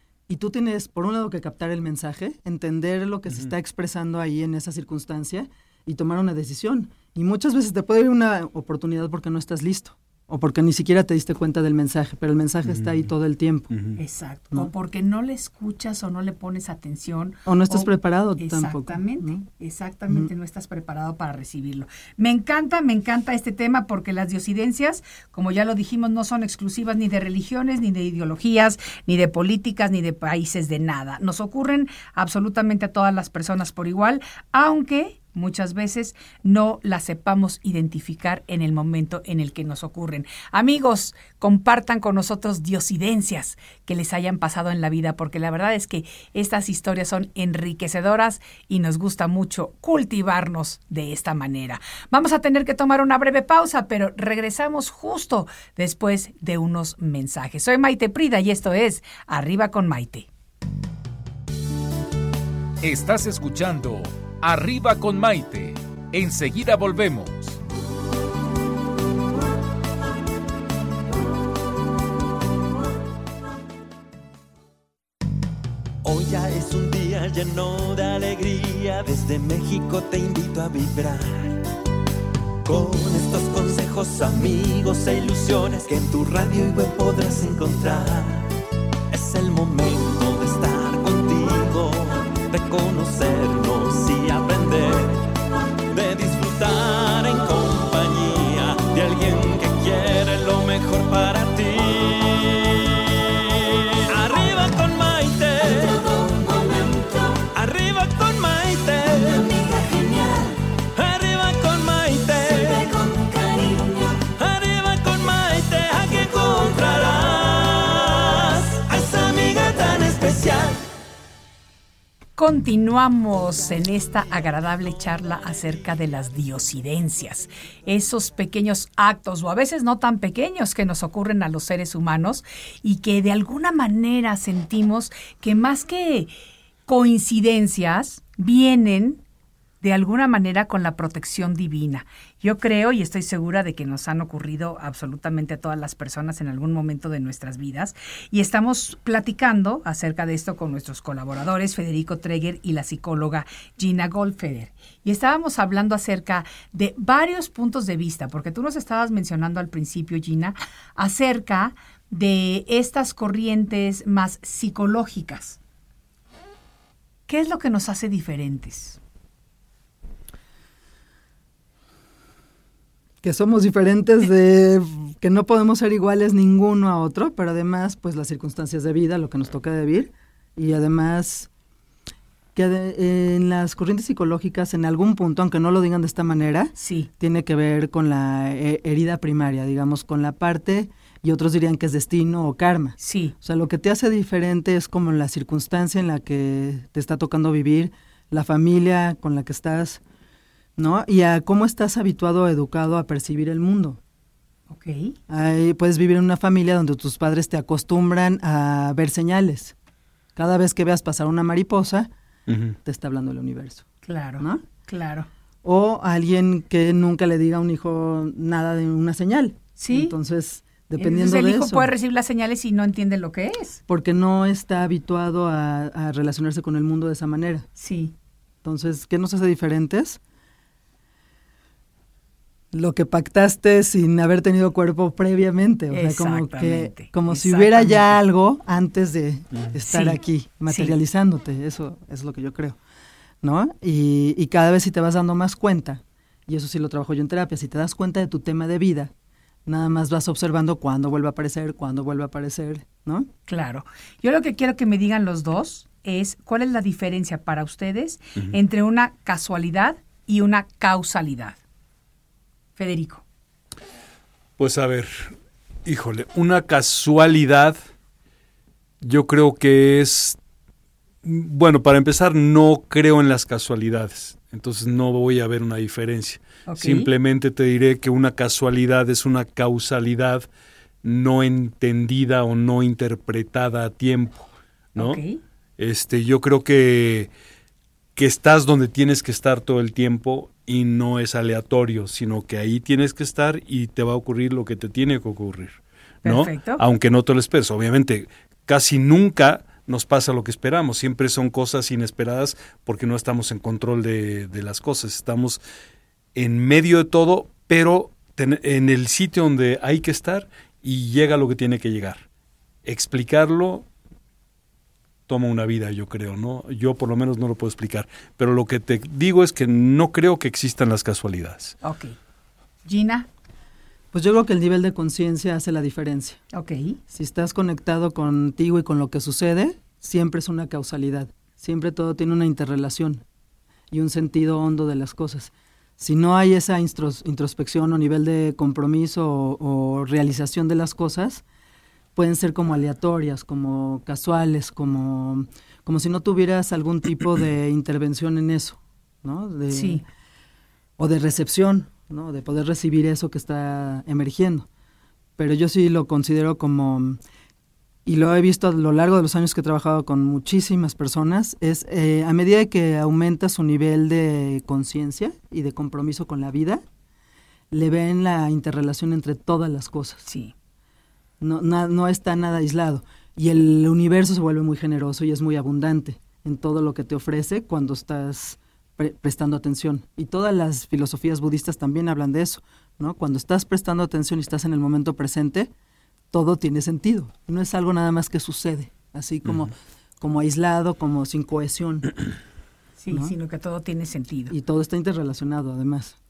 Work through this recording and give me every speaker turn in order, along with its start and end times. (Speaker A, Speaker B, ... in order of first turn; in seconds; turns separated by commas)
Speaker A: 0.3-13.7, Speaker B: 12.7-13.1, Speaker B: 13.7-14.0, Speaker C: 14.0-60.3, Speaker A: 17.5-19.4, Speaker D: 62.8-67.6, Speaker E: 76.0-81.7, Speaker E: 82.7-88.5, Speaker E: 89.1-95.3, Speaker E: 95.9-120.8, Speaker C: 122.4-136.3, Speaker C: 136.9-139.2, Speaker C: 139.8-165.6, Speaker C: 167.3-169.0, Speaker A: 173.2-181.5, Speaker A: 182.6-200.0, Speaker C: 186.8-187.1, Speaker C: 193.0-193.3, Speaker A: 200.8-204.0, Speaker C: 204.7-205.2, Speaker A: 205.3-209.8, Speaker A: 210.4-212.1, Speaker B: 212.5-212.8, Speaker A: 212.8-213.8, Speaker C: 214.1-215.3, Speaker A: 214.4-214.6, Speaker A: 215.6-221.9, Speaker C: 219.8-220.2, Speaker C: 221.0-223.8, Speaker A: 223.9-227.7, Speaker C: 227.8-228.1, Speaker A: 228.6-230.2, Speaker A: 232.7-242.8, Speaker C: 235.9-238.2, Speaker C: 239.9-241.0, Speaker A: 243.4-249.1, Speaker A: 249.7-253.3, Speaker C: 253.5-261.6, Speaker C: 262.8-263.2, Speaker B: 264.6-267.8, Speaker B: 269.0-270.4, Speaker B: 271.2-280.5, Speaker C: 276.7-277.1, Speaker B: 281.0-285.2, Speaker C: 285.0-285.4, Speaker B: 285.8-287.3, Speaker B: 288.2-305.6, Speaker C: 296.2-296.8, Speaker B: 306.4-312.2, Speaker B: 312.9-313.9, Speaker B: 315.3-321.8, Speaker C: 321.8-322.2, Speaker C: 322.9-323.3, Speaker A: 324.1-326.4, Speaker C: 326.5-327.0, Speaker A: 327.1-333.2, Speaker A: 333.9-341.4, Speaker A: 342.1-350.0, Speaker C: 349.7-350.0, Speaker A: 351.0-354.7, Speaker A: 355.4-357.2, Speaker A: 358.1-366.8, Speaker A: 367.7-370.2, Speaker C: 370.3-370.5, Speaker A: 371.4-385.7, Speaker A: 386.3-392.1, Speaker C: 393.0-394.5, Speaker A: 394.5-396.2